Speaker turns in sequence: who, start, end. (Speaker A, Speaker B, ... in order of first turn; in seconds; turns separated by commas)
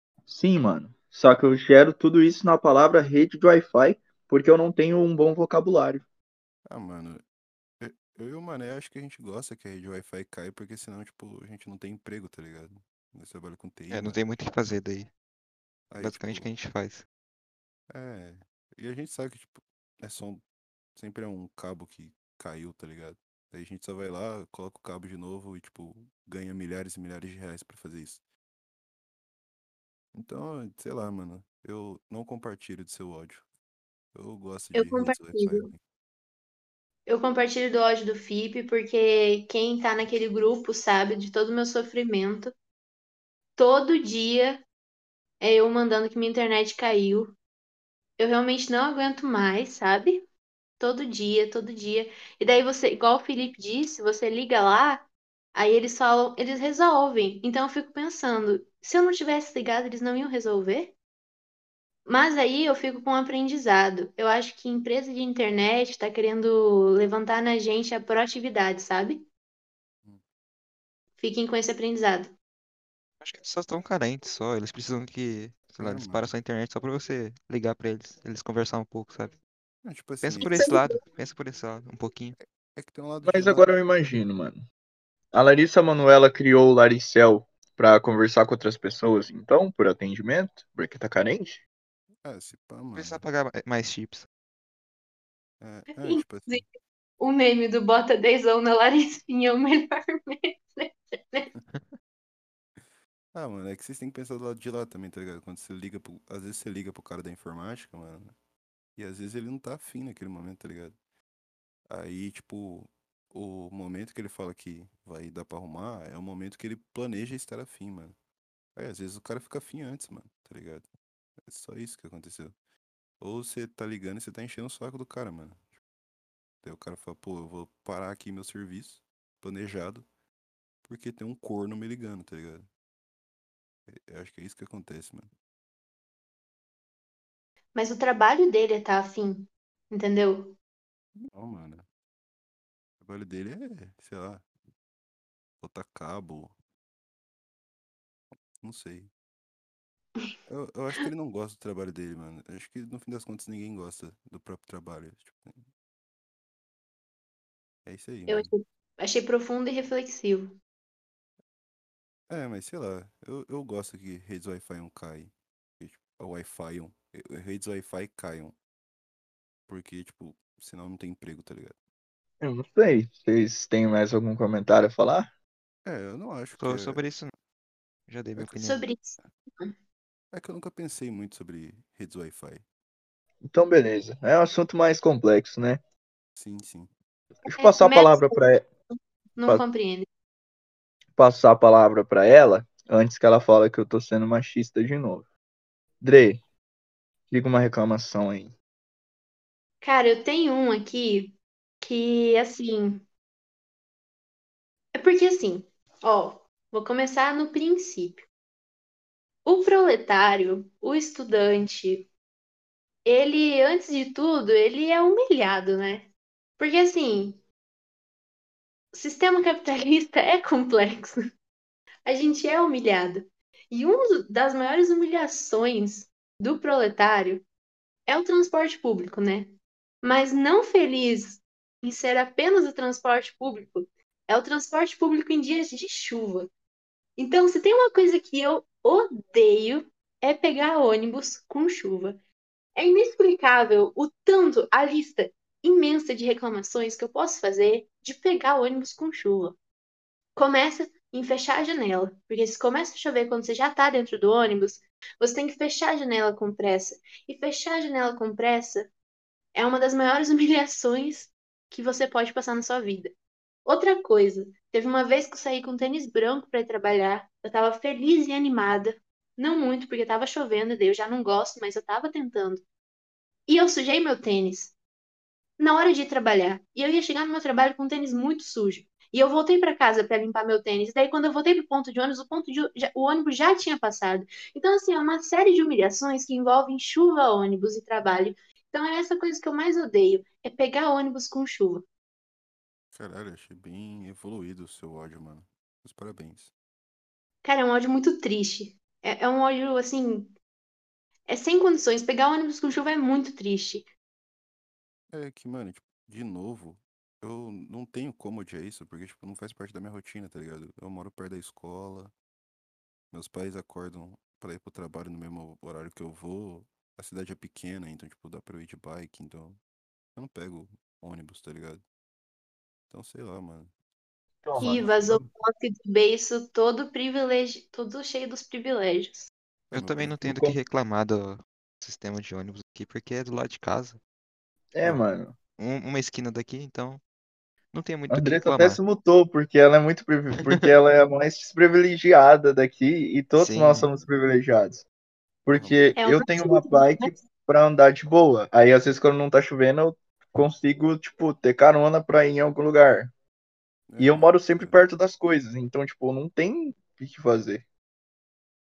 Speaker A: 0.3-6.1, Speaker B: 6.7-7.2, Speaker B: 7.8-14.2, Speaker C: 13.9-15.1, Speaker B: 15.9-16.5, Speaker C: 16.0-17.1, Speaker B: 17.9-20.4, Speaker B: 21.0-28.2, Speaker B: 30.1-33.5, Speaker B: 34.1-35.8, Speaker D: 34.7-35.7, Speaker D: 37.1-42.5, Speaker D: 43.6-44.6, Speaker D: 45.4-47.4, Speaker D: 48.2-50.2, Speaker D: 50.8-61.0, Speaker D: 62.1-69.2, Speaker D: 71.2-72.3, Speaker C: 73.2-79.4, Speaker B: 75.8-76.3, Speaker B: 79.8-80.6, Speaker C: 80.2-82.4, Speaker D: 80.5-81.0, Speaker B: 82.4-83.7, Speaker A: 83.2-84.7, Speaker A: 85.3-91.6, Speaker B: 92.2-93.2, Speaker C: 93.0-94.2, Speaker B: 95.6-96.7, Speaker D: 96.0-96.7, Speaker D: 97.2-101.5, Speaker B: 103.3-108.4, Speaker B: 109.0-111.0, Speaker B: 111.9-118.2, Speaker B: 118.8-120.9, Speaker B: 121.5-122.5, Speaker B: 123.2-125.7, Speaker B: 126.6-130.1, Speaker B: 130.8-132.7, Speaker B: 133.9-135.3, Speaker D: 137.8-140.6, Speaker B: 141.2-141.8, Speaker B: 143.0-144.5, Speaker B: 145.6-146.6, Speaker B: 148.6-149.1, Speaker B: 150.5-155.7, Speaker B: 157.9-158.5, Speaker D: 158.3-160.6, Speaker B: 162.3-168.6, Speaker B: 169.7-171.8, Speaker A: 172.4-175.3, Speaker B: 175.8-177.1, Speaker C: 176.6-177.3, Speaker C: 178.1-178.8, Speaker D: 178.6-179.8, Speaker B: 180.3-182.6, Speaker A: 183.4-185.8, Speaker B: 186.4-186.9, Speaker A: 187.4-188.7, Speaker D: 187.5-190.1, Speaker A: 191.2-195.3, Speaker A: 196.0-196.4, Speaker A: 197.3-198.6, Speaker D: 199.8-203.1, Speaker D: 204.9-208.2, Speaker D: 209.4-212.1, Speaker D: 213.1-217.4, Speaker D: 218.9-221.2, Speaker D: 222.1-227.4, Speaker D: 228.1-236.5, Speaker D: 237.2-242.2, Speaker D: 242.8-249.6, Speaker D: 250.3-258.9, Speaker D: 259.5-263.1, Speaker D: 263.6-272.6, Speaker D: 273.5-274.8, Speaker D: 275.6-291.9, Speaker B: 292.9-296.5, Speaker D: 297.4-300.3, Speaker D: 301.3-303.9, Speaker B: 305.1-312.1, Speaker B: 313.1-319.6, Speaker B: 320.1-321.9, Speaker B: 322.9-323.7, Speaker A: 324.4-325.2, Speaker B: 324.6-325.1, Speaker D: 324.6-329.3, Speaker C: 329.7-334.0, Speaker B: 329.7-330.2, Speaker A: 330.2-330.6, Speaker A: 334.7-335.4, Speaker C: 335.6-337.0, Speaker C: 337.7-338.8, Speaker A: 338.1-344.9, Speaker C: 340.4-340.7, Speaker C: 343.4-343.9, Speaker A: 345.4-353.1, Speaker B: 345.5-345.9, Speaker D: 346.0-347.2, Speaker B: 353.9-354.8, Speaker A: 354.0-357.6